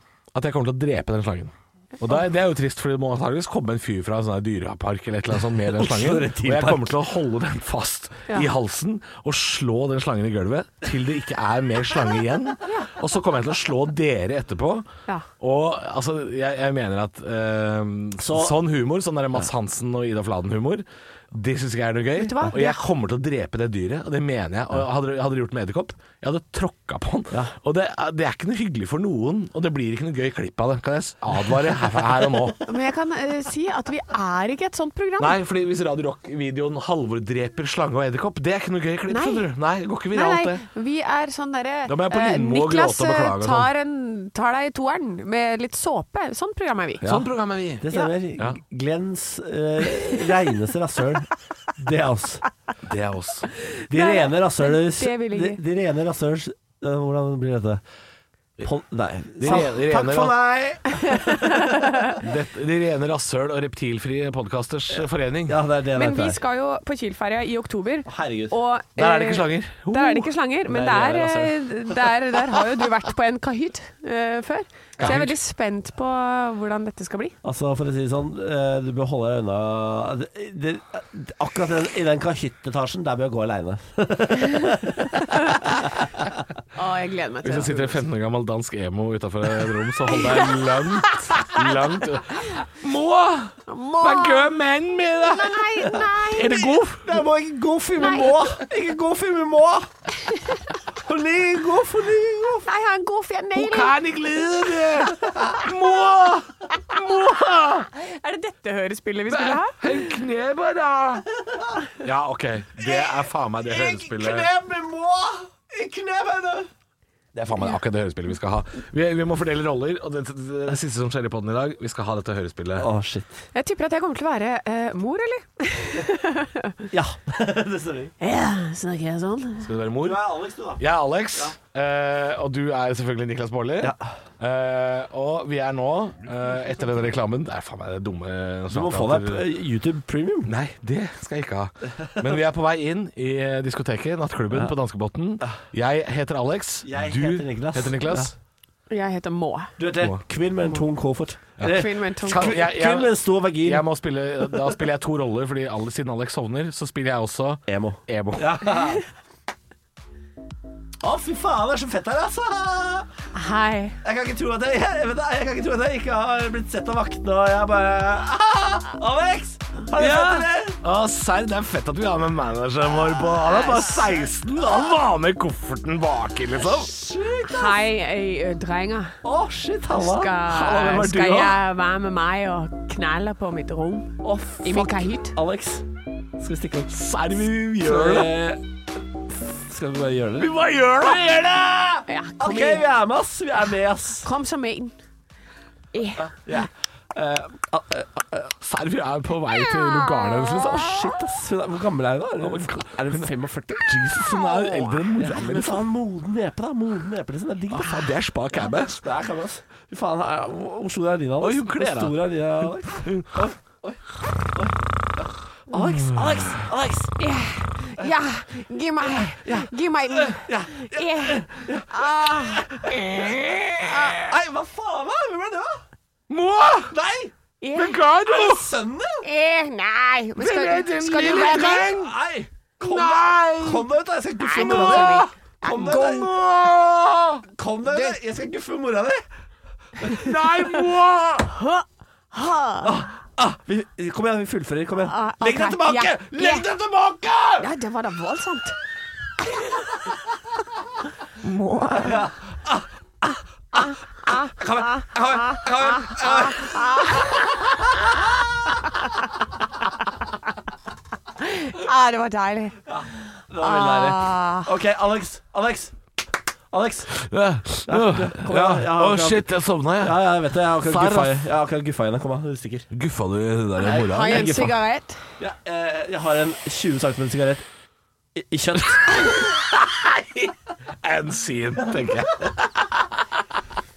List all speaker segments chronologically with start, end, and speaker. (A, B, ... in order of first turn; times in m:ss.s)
0:00.3-0:14.9 A
0:05.6-0:06.9 B
0:15.4-0:32.6 A
0:18.2-0:18.6 B
0:22.2-0:22.8 C
0:32.7-0:35.4 C
0:35.2-0:40.6 A
0:39.1-0:39.5 C
0:40.1-0:47.0 C
0:41.9-0:43.7 A
0:47.0-0:52.4 B
0:47.0-0:48.6 A
0:52.8-0:53.5 A
0:53.7-0:55.6 C
0:53.9-0:57.8 B
0:58.6-1:02.2 B
0:59.4-1:00.3 A
1:01.1-1:02.2 C
1:02.2-1:05.6 A
1:05.5-1:06.4 B
1:05.9-1:17.4 C
1:08.0-1:08.5 B
1:09.0-1:10.3 A
1:10.7-1:11.5 B
1:15.0-1:15.3 A
1:17.4-1:26.2 B
1:26.7-1:27.9 C
1:27.4-1:37.2 A
1:30.2-1:31.4 C
1:33.7-1:34.6 C
1:35.2-1:36.8 C
1:37.0-1:39.9 B
1:38.0-1:38.6 C
1:40.3-1:40.6 C
1:41.0-1:42.7 B
1:42.6-1:44.0 C
1:43.5-1:47.9 A
1:47.9-1:49.9 C
1:49.3-1:51.2 A
1:51.9-1:54.5 A
1:52.8-1:53.1 B
1:53.7-1:56.7 B
1:57.3-2:02.9 A
2:02.8-2:03.3 B
2:03.5-2:06.8 C
2:06.9-2:08.1 B
2:08.2-2:09.7 C
2:09.6-2:10.2 A
2:10.0-2:10.8 B
2:10.8-2:19.4 A
2:18.7-2:20.5 B
2:20.4-2:28.3 A
2:26.8-2:28.2 B
2:28.9-2:29.7 C
2:29.8-2:33.8 B
2:31.6-2:38.8 A
2:31.6-2:32.6 C
2:37.7-2:39.0 B
2:41.0-2:43.1 B
2:43.3-2:44.0 C
2:44.0-2:50.8 B
2:49.9-2:56.9 A
2:56.6-2:57.8 B
2:57.4-2:59.2 C
2:59.2-3:01.5 B
2:59.9-3:05.3 C
3:00.7-3:01.0 A
3:04.2-3:05.8 B
3:06.4-3:06.9 B
3:06.9-3:08.3 A
3:07.8-3:08.6 B
3:09.3-3:10.5 B
3:10.4-3:12.0 A
3:12.1-3:12.8 C
3:12.4-3:14.3 B
3:14.2-3:14.9 C
3:15.9-3:16.3 C
3:16.2-3:18.5 B
3:18.6-3:21.1 A
3:19.8-3:20.6 C
3:20.6-3:24.2 B
3:22.4-3:25.8 A
3:24.2-3:25.1 C
3:25.2-3:28.1 B
3:27.7-3:29.0 A
3:28.7-3:34.0 B
3:31.4-3:32.2 A
3:33.0-3:33.4 A
3:35.7-3:37.2 B
3:36.0-3:36.5 A
3:37.2-3:42.7 C
3:39.1-3:43.3 B
3:42.8-3:44.3 A
3:43.8-3:44.3 C
3:44.2-3:45.8 B
3:46.3-3:46.9 A
3:46.9-3:47.3 B
3:47.6-3:48.0 C
3:47.7-3:48.7 A
3:48.2-3:49.3 B
3:49.2-3:52.0 C
3:50.4-3:52.1 A
3:51.3-3:56.3 B
3:52.8-3:53.9 A
3:54.4-3:56.3 C
3:54.6-3:55.3 A
3:55.9-3:57.4 A
3:57.5-3:59.2 B
4:00.0-4:00.3 B
4:00.0-4:01.6 A
4:01.6-4:03.0 C
4:02.8-4:07.7 B
4:05.0-4:06.7 C
4:07.6-4:08.8 C
4:11.4-4:12.3 C
4:11.9-4:12.8 B
4:13.8-4:17.4 C
4:13.8-4:18.0 B
4:21.4-4:22.8 C
4:22.9-4:25.9 B
4:23.6-4:24.7 C
4:26.7-4:27.1 B
4:27.1-4:30.2 A
4:27.8-4:32.9 B
4:30.7-4:31.4 A
4:32.9-4:34.7 A
4:33.8-4:34.7 B
4:33.9-4:35.2 C
4:35.4-4:37.6 B
4:38.3-4:39.3 B
4:39.5-4:40.5 A
4:41.0-4:43.0 A